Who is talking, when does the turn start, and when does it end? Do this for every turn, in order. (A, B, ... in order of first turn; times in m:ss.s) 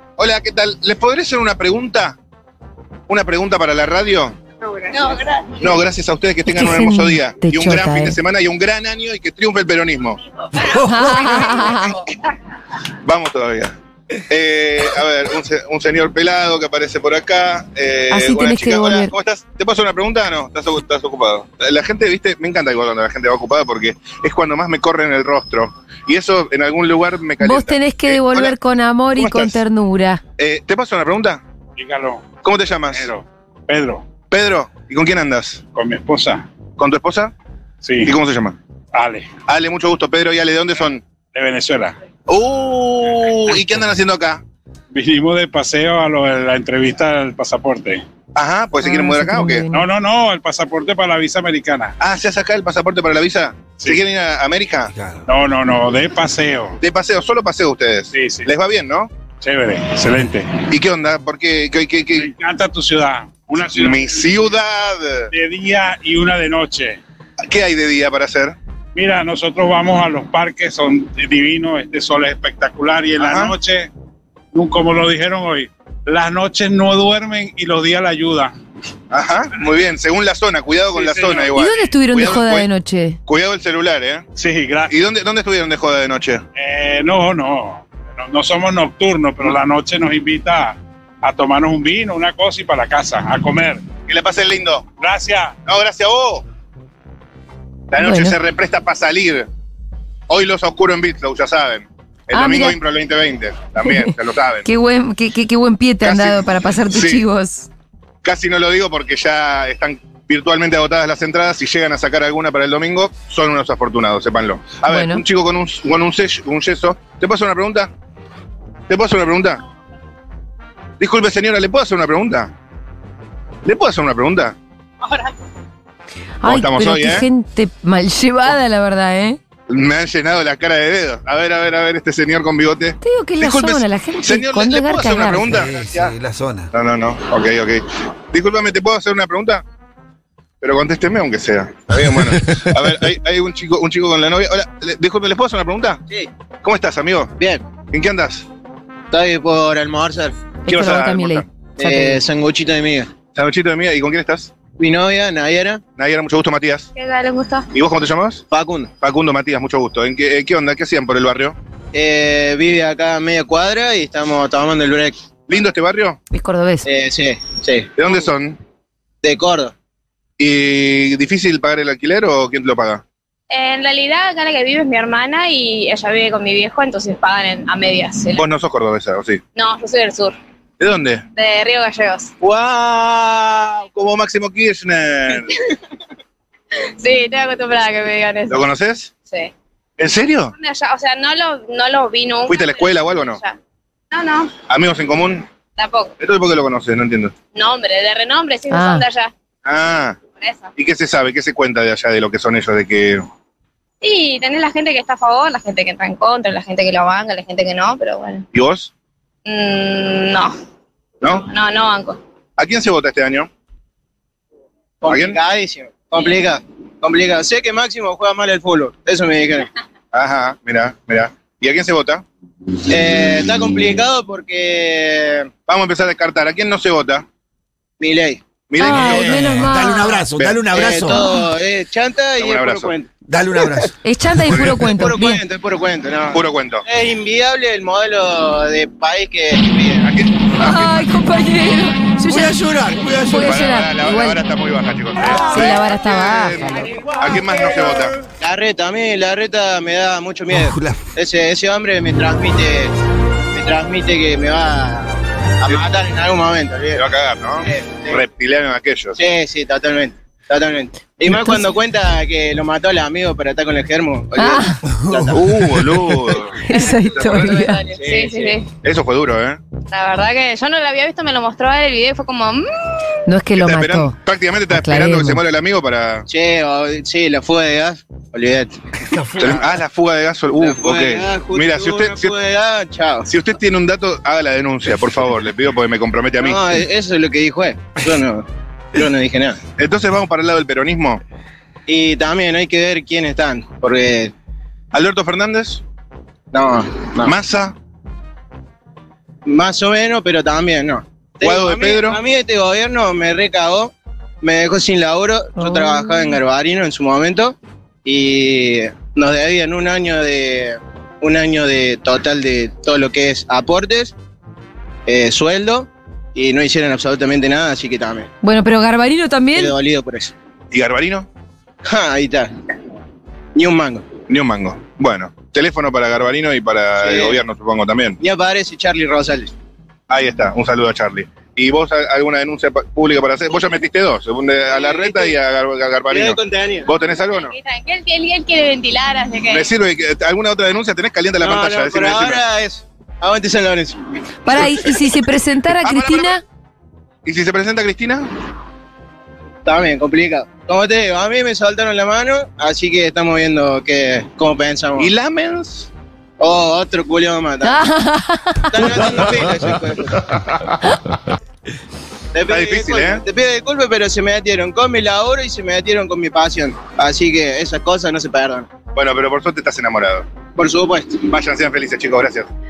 0:00.2-0:02.2 A
0:03.1-0:04.4 A
0:05.6-0:10.2 A
0:06.5-0:08.2 B
0:10.7-0:12.0 B
0:13.0-0:13.8 A
0:14.3-0:28.5 A
0:18.1-0:19.1 B
0:27.4-0:30.2 B
0:29.2-0:29.6 A
0:30.4-0:31.4 A
0:31.8-0:32.4 C
0:32.4-0:33.1 A
0:32.9-0:34.1 C
0:34.3-0:35.6 A
0:35.7-0:36.5 C
0:36.8-0:37.3 A
0:37.8-0:38.2 C
0:38.0-0:38.6 A
0:38.9-0:39.4 C
0:39.5-0:41.0 A
0:41.4-0:42.0 C
0:42.3-0:44.4 A
0:43.5-0:43.8 C
0:44.9-0:48.0 C
0:48.4-0:49.7 A
0:48.8-0:49.9 B
0:49.7-0:51.9 C
0:52.0-0:54.9 A
0:54.9-0:55.2 D
0:55.3-0:56.8 C
0:56.8-0:59.1 A
0:58.1-0:58.5 C
0:59.4-1:00.6 C
1:00.7-1:02.3 A
1:02.2-1:04.5 C
1:03.7-1:05.3 A
1:05.3-1:07.0 C
1:07.5-1:08.6 A
1:09.0-1:13.9 C
1:13.2-1:13.6 A
1:14.5-1:18.5 C
1:19.1-1:22.7 A
1:20.9-1:21.5 C
1:21.5-1:23.2 B
1:23.3-1:24.3 A
1:24.4-1:24.9 C
1:24.9-1:26.4 A
1:26.6-1:33.9 C
1:34.1-1:34.9 A
1:35.0-1:35.6 C
1:35.6-1:36.4 A
1:37.9-1:39.5 A
1:38.0-1:38.4 B
1:40.3-1:44.7 A
1:42.3-1:42.8 B
1:43.9-1:44.1 B
1:44.6-1:47.7 B
1:46.0-1:47.2 A
1:48.2-1:57.9 A
1:54.9-1:55.2 B
1:58.9-1:59.6 A
2:01.0-2:02.5 A
2:03.6-2:04.6 A
2:06.4-2:09.4 B
2:06.4-2:07.3 A
2:09.7-2:16.1 A
2:13.0-2:15.5 B
2:15.4-2:16.7 D
2:16.7-2:19.6 A
2:20.6-2:26.0 A
2:26.6-2:27.3 A
2:27.4-2:27.6 E
2:27.9-2:28.5 A
2:29.1-2:30.4 E
2:30.7-2:32.1 B
2:30.7-2:31.5 A
2:31.8-2:33.1 E
2:33.3-2:34.5 A
2:34.8-2:35.8 E
2:36.0-2:36.9 A
2:37.0-2:37.7 F
2:37.7-2:38.4 A
2:38.5-2:38.9 E
2:39.0-2:41.6 A
2:41.9-2:45.2 E
2:45.5-2:46.2 A
2:46.3-2:46.9 B
2:46.9-2:47.9 E
2:48.0-2:48.6 A
2:49.2-2:49.7 E
2:50.4-2:53.0 A
2:53.5-2:58.4 F
2:58.4-2:59.4 A
2:59.6-3:00.4 F
3:00.8-3:01.2 A
3:01.3-3:02.3 F
3:02.4-3:05.6 A
3:07.0-3:08.7 F
3:08.5-3:09.1 A
3:09.2-3:09.5 F
3:10.0-3:10.5 A
3:10.6-3:13.6 F
3:12.5-3:13.4 A
3:14.1-3:14.6 F
3:14.7-3:15.5 A
3:15.8-3:16.2 F
3:16.2-3:17.3 A
3:17.6-3:19.3 F
3:18.7-3:19.0 B
3:19.7-3:20.2 A
3:20.4-3:20.7 F
3:20.8-3:23.2 A
3:24.0-3:28.4 F
3:28.5-3:28.9 A
3:29.5-3:30.6 F
3:31.2-3:31.5 A
3:31.3-3:32.2 F
3:32.6-3:33.5 A
3:35.0-3:39.7 E
3:35.1-3:35.4 A
3:40.1-3:42.2 A
3:42.9-3:45.5 E
3:45.7-3:47.2 A
3:48.0-3:48.4 E
3:48.7-3:49.6 A
3:48.8-3:50.3 B
3:48.8-3:51.3 D
3:50.4-3:50.8 A
3:50.7-3:53.1 E
3:52.4-3:52.9 A
3:53.3-3:54.9 D
3:54.0-3:55.4 B
3:54.8-4:00.0 E
3:56.3-3:56.8 A
4:00.0-4:01.1 A
4:00.6-4:04.4 B
4:02.3-4:03.8 D
4:03.4-4:08.2 A
4:05.3-4:06.9 B
4:08.4-4:12.9 E
4:10.5-4:11.1 D
4:13.6-4:17.0 E
4:17.0-4:19.2 A
4:17.6-4:18.2 E
4:19.2-4:25.4 E
4:21.3-4:21.6 B
4:24.4-4:24.8 B
4:24.9-4:26.2 D
4:25.3-4:27.7 A
4:26.6-4:27.8 B
4:27.3-4:28.7 F
4:28.0-4:28.5 E
4:28.8-4:29.6 A
4:29.9-4:32.6 F
4:33.3-4:34.1 B
4:33.6-4:36.3 A
4:34.7-4:35.4 B
4:36.3-4:38.8 E
4:39.1-4:39.6 D
4:39.4-4:42.4 A
4:40.6-4:43.3 E
4:43.3-4:46.8 A
4:46.4-4:49.6 E
4:49.8-4:51.2 A
4:51.9-4:54.3 E
4:54.9-4:55.8 A
4:56.5-4:57.3 E
4:57.2-4:57.8 A
4:59.5-5:14.1 E
5:01.4-5:02.2 A
5:05.6-5:06.4 B
5:15.1-5:18.3 E
5:18.4-5:19.8 B
5:19.5-5:20.3 E
5:20.7-5:21.3 A
5:21.8-5:22.5 E
5:23.6-5:24.1 E
5:24.3-5:28.2 A
5:27.0-5:27.4 E
5:28.2-5:29.5 E
5:30.1-5:37.5 A
5:34.7-5:35.3 E
5:36.1-5:36.9 E
5:37.4-5:39.7 F
5:39.5-5:42.4 A
5:41.4-5:44.0 E
5:44.4-5:46.4 B
5:45.8-5:46.4 A
5:47.2-5:48.3 A
5:49.6-5:55.1 E
5:55.0-5:55.9 A
5:56.4-5:57.8 E
5:57.6-5:58.7 B
5:58.7-6:00.0 E
6:02.3-6:08.7 E
6:02.5-6:03.2 A
6:08.9-6:10.3 A
6:10.6-6:11.2 E
6:11.2-6:12.5 A